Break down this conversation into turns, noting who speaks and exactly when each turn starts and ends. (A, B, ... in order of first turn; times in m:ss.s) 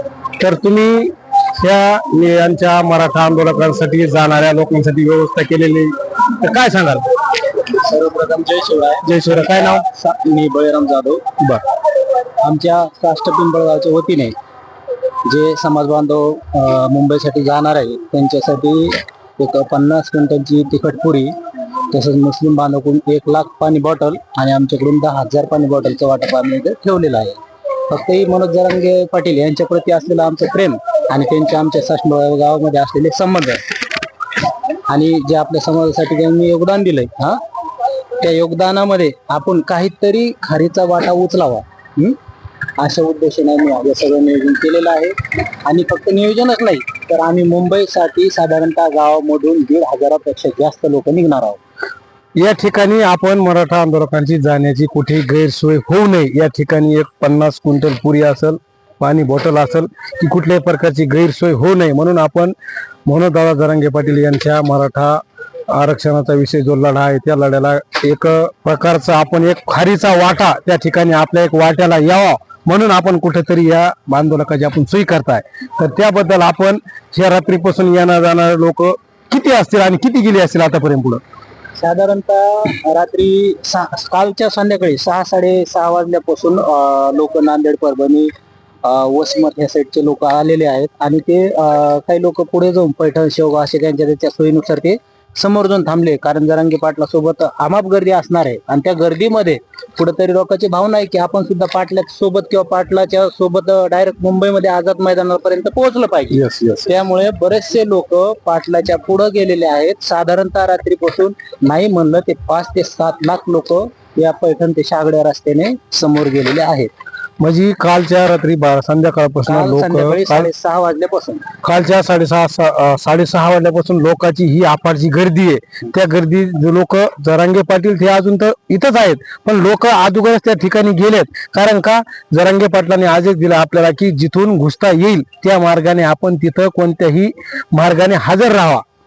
0:00.4-0:07.1 A
0:07.6-0:11.4 B
0:09.1-0:09.8 A
0:12.4-0:14.4 B
0:15.2-0:21.4 B
0:21.9-0:33.6 B
0:34.9-0:37.4 B
0:38.1-0:42.2 B
0:42.8-0:51.6 B
0:52.4-1:02.6 A
1:03.1-1:21.2 A
1:21.8-1:28.3 B
1:28.8-1:56.9 B
1:46.3-1:46.9 A
1:57.4-2:00.5 A
1:59.5-2:01.5 B
2:01.6-2:18.8 A